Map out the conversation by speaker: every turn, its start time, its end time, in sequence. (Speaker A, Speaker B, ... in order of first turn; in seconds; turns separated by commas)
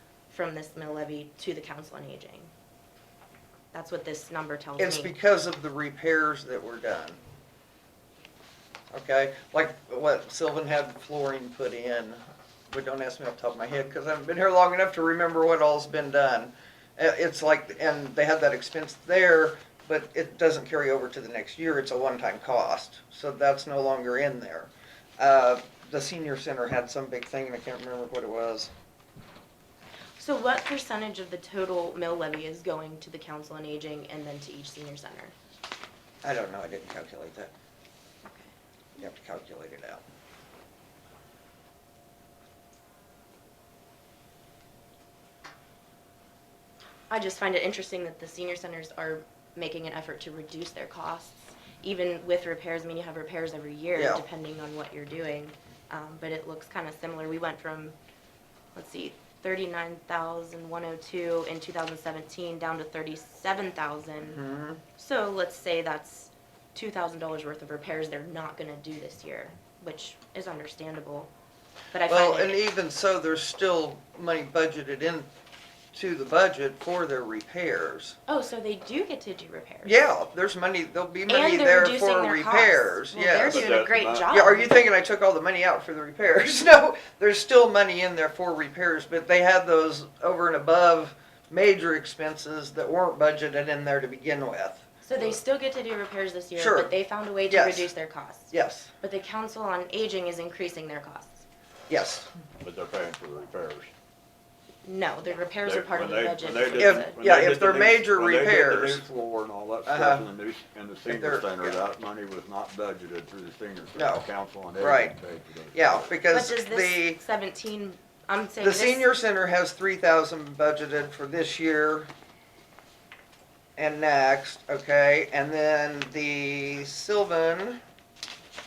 Speaker A: 0.3-2.5, Speaker A: 3.7-5.1, Speaker B: 4.8-7.2, Speaker B: 8.9-28.7, Speaker A: 30.2-35.3, Speaker B: 36.2-37.5, Speaker A: 38.2-38.5, Speaker B: 39.0-40.0, Speaker A: 47.1-58.0, Speaker B: 53.9-54.2, Speaker A: 58.7-64.4, Speaker B: 64.2-64.8, Speaker A: 65.0-71.3, Speaker A: 71.9-72.6, Speaker B: 72.1-75.3, Speaker B: 75.9-78.2, Speaker A: 78.3-80.0, Speaker B: 79.8-95.4, Speaker A: 81.3-84.8, Speaker C: 83.4-84.3, Speaker A: 95.0-101.4, Speaker B: 96.5-96.9, Speaker B: 97.5-97.9, Speaker B: 98.5-98.9, Speaker B: 101.9-102.3, Speaker C: 102.6-103.9, Speaker A: 104.8-107.2, Speaker C: 105.6-116.1, Speaker B: 106.8-109.0, Speaker B: 109.8-110.3, Speaker B: 111.0-111.8, Speaker B: 113.9-115.1, Speaker B: 115.7-117.2, Speaker A: 116.3-119.1, Speaker B: 118.6-122.1, Speaker B: 123.8-127.8